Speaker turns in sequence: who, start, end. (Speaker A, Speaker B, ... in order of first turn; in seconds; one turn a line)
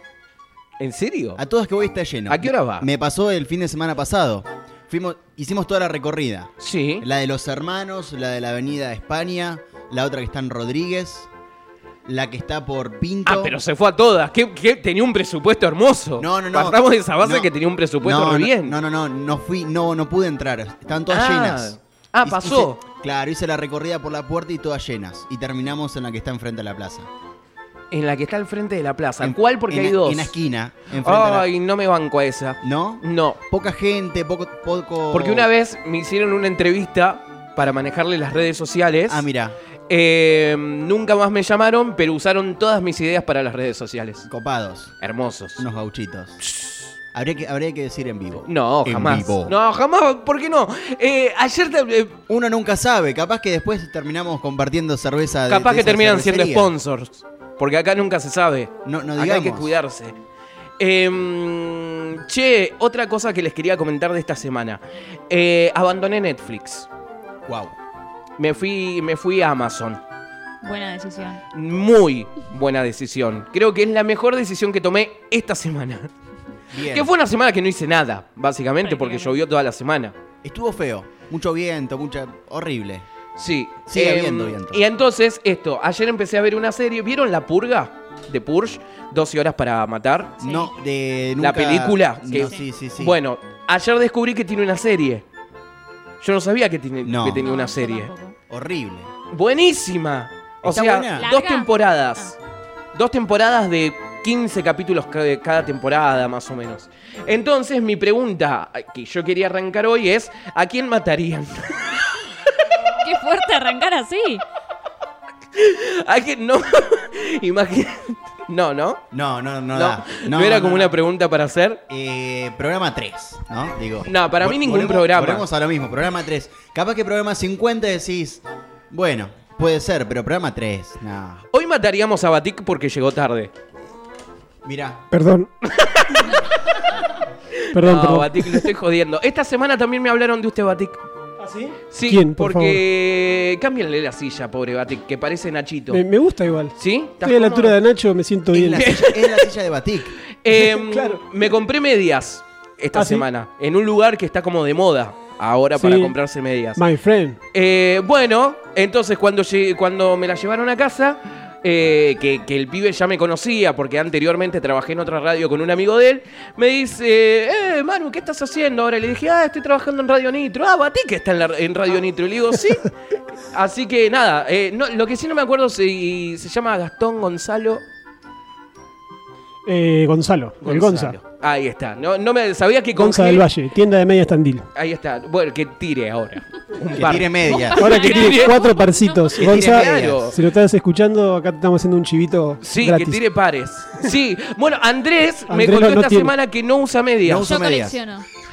Speaker A: 0.8-1.4
Speaker B: 1.4-11.3
Speaker A: 2.3-2.9
Speaker A: 6.6-7.0
Speaker B: 12.1-13.5
Speaker A: 13.2-18.8
Speaker B: 16.2-17.5
Speaker B: 18.0-27.1
Speaker A: 21.1-22.8
Speaker A: 27.9-30.4
Speaker B: 29.2-31.5
Speaker A: 31.0-33.4
Speaker B: 32.6-35.5
Speaker A: 35.1-39.2
Speaker B: 39.1-39.5
Speaker A: 39.9-44.3
Speaker B: 44.3-44.9
Speaker A: 45.0-45.7
Speaker B: 45.6-46.4
Speaker A: 46.4-46.8
Speaker B: 47.1-49.5
Speaker A: 48.5-52.2
Speaker B: 52.3-56.7
Speaker A: 55.5-60.1
Speaker B: 58.8-59.8
Speaker A: 60.8-66.9
Speaker B: 67.5-67.7
Speaker A: 68.4-70.0
Speaker C: 70.6-71.4
Speaker A: 71.5-76.1
Speaker B: 76.7-77.1
Speaker A: 76.7-80.1
Speaker C: 78.8-79.3
Speaker B: 80.4-83.0
Speaker A: 83.3-90.4
Speaker B: 83.9-84.8
Speaker B: 90.4-93.2
Speaker C: 90.4-90.7
Speaker A: 91.4-95.2
Speaker C: 92.4-92.7
Speaker A: 96.2-98.1
Speaker B: 97.0-97.5
Speaker C: 97.4-98.3
Speaker B: 98.5-99.1
Speaker A: 99.3-102.3
Speaker B: 100.6-101.3
Speaker C: 101.2-102.3
Speaker A: 102.9-112.0
Speaker C: 113.0-114.4
Speaker A: 115.5-119.0
Speaker B: 119.1-120.9
Speaker A: 119.7-121.8
Speaker B: 121.9-131.4
Speaker A: 124.0-125.5
Speaker A: 131.5-133.5
Speaker B: 134.6-135.0
Speaker D: 135.1-135.5
Speaker A: 135.8-136.4
Speaker A: 137.7-141.0
Speaker D: 137.7-138.7
Speaker D: 141.4-142.8
Speaker A: 141.9-146.0
Speaker D: 145.9-148.9
Speaker A: 146.8-147.8
Speaker B: 148.5-150.1
Speaker A: 148.7-149.5
Speaker A: 150.4-156.8
Speaker D: 150.5-151.4
Speaker D: 152.9-153.3
Speaker D: 155.7-156.2
Speaker D: 156.7-157.4
Speaker A: 157.5-172.9
Speaker A: 173.5-177.8
Speaker D: 179.6-181.2
Speaker A: 180.6-183.5
Speaker D: 182.9-184.7
Speaker A: 184.7-188.6
Speaker B: 186.9-187.9
Speaker C: 187.5-189.5
Speaker D: 187.8-193.2
Speaker A: 189.3-190.4
Speaker B: 189.5-190.3
Speaker A: 192.6-197.6
Speaker D: 195.5-196.3
Speaker B: 197.2-198.0
Speaker C: 197.4-198.3